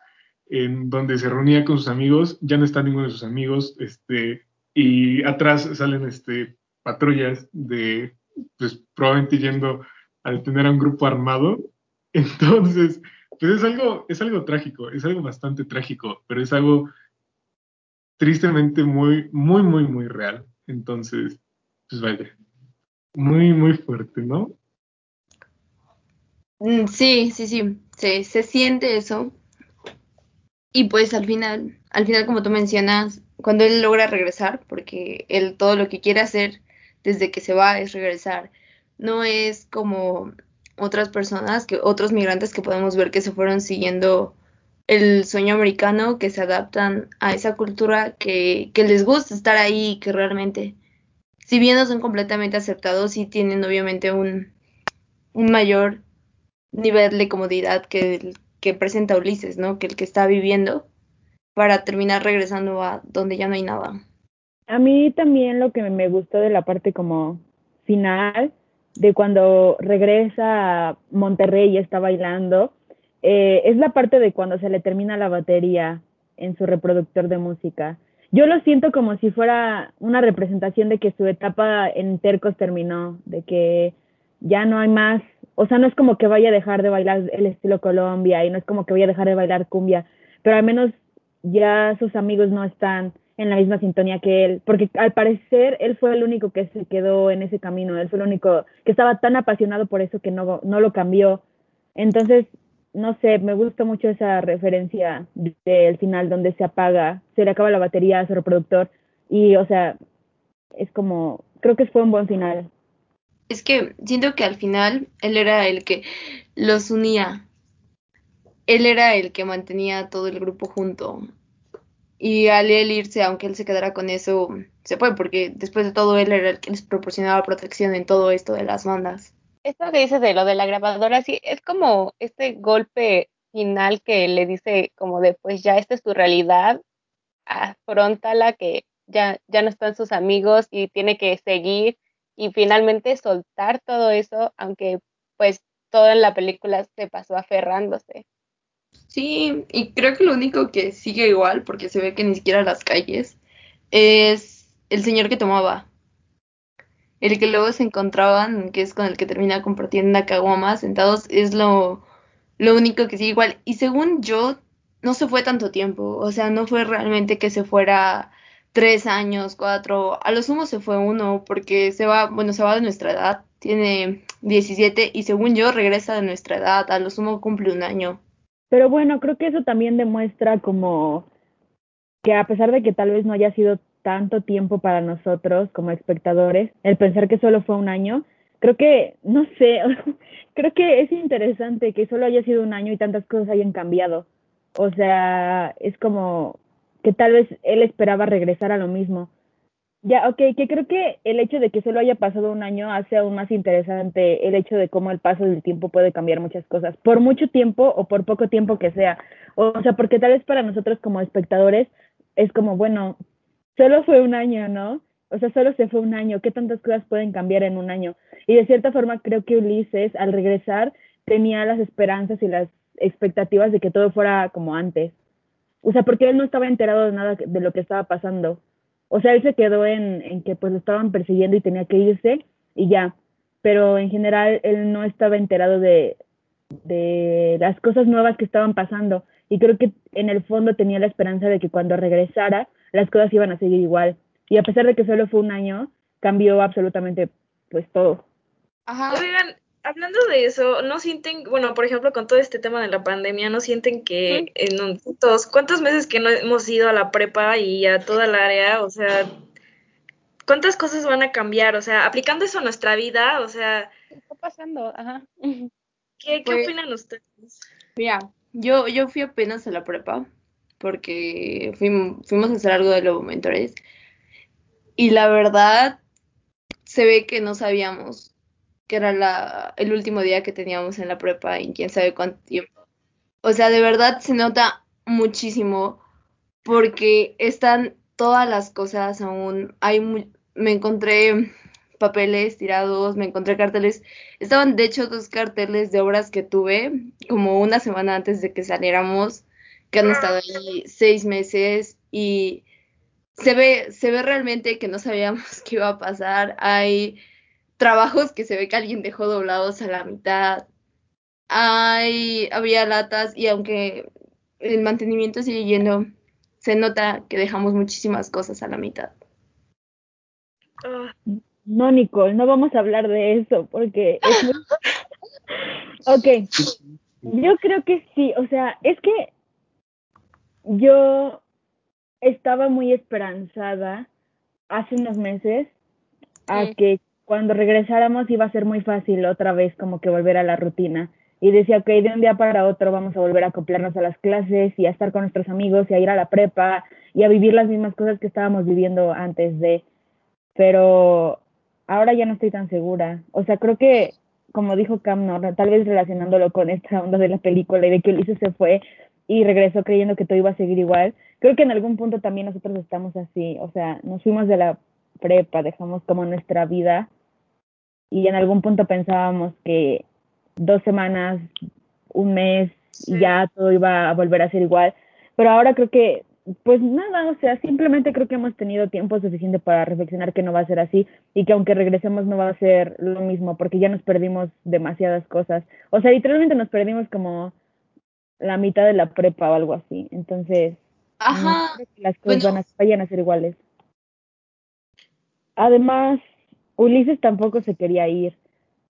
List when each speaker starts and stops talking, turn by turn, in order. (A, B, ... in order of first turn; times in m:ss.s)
0:00.5-0:16.9 A
0:18.2-0:22.3 A
0:23.2-0:24.5 A
0:26.6-0:29.3 B
0:30.7-0:44.4 B
0:44.9-0:50.8 B
0:51.4-0:54.5 B
0:55.3-0:56.0 B
0:56.7-1:00.9 B
1:01.6-1:04.0 B
1:04.7-1:41.4 C
1:42.0-1:50.0 C
1:50.8-1:52.7 C
1:53.5-1:57.5 B
1:58.7-2:01.2 B
2:02.2-2:09.3 B
2:09.6-2:16.8 D
2:17.5-2:28.2 D
2:29.1-2:33.4 B
2:33.9-2:35.9 B
2:37.2-2:42.0 B
2:42.6-2:58.2 B
2:58.7-3:01.3 C
3:02.2-3:19.3 C
3:20.0-3:33.2 C
3:33.8-3:45.1 C
3:45.8-3:48.6 C
3:49.1-3:56.2 C
3:56.8-4:08.2 C
4:08.9-4:09.3 B
4:09.1-4:19.3 E
4:20.5-4:23.9 E
4:24.2-4:25.7 D
4:26.2-4:27.6 E
4:26.5-4:26.7 B
4:28.0-4:30.3 B
4:30.8-4:33.8 B
4:35.0-4:36.0 B
4:36.9-4:38.3 B
4:38.9-4:42.7 B
4:43.4-4:46.0 B
4:46.6-5:02.6 B
5:03.4-5:07.2 B
5:07.8-5:10.7 B
5:11.5-5:14.1 B
5:14.6-5:16.1 B
5:16.6-5:19.1 B
5:20.9-5:21.1 E
5:21.7-5:24.6 C
5:26.0-5:26.6 C
5:27.3-5:29.3 C
5:30.7-5:31.4 C
5:32.2-5:34.1 C
5:34.7-5:35.7 C
5:36.5-5:49.8 C
5:50.6-6:07.1 C
6:08.1-6:10.0 C
6:10.6-6:11.5 C
6:12.2-6:27.5 C
6:28.4-6:30.8 C
6:31.2-6:32.6 B
6:31.3-6:33.6 C
6:35.6-6:36.2 C
6:36.8-6:38.3 C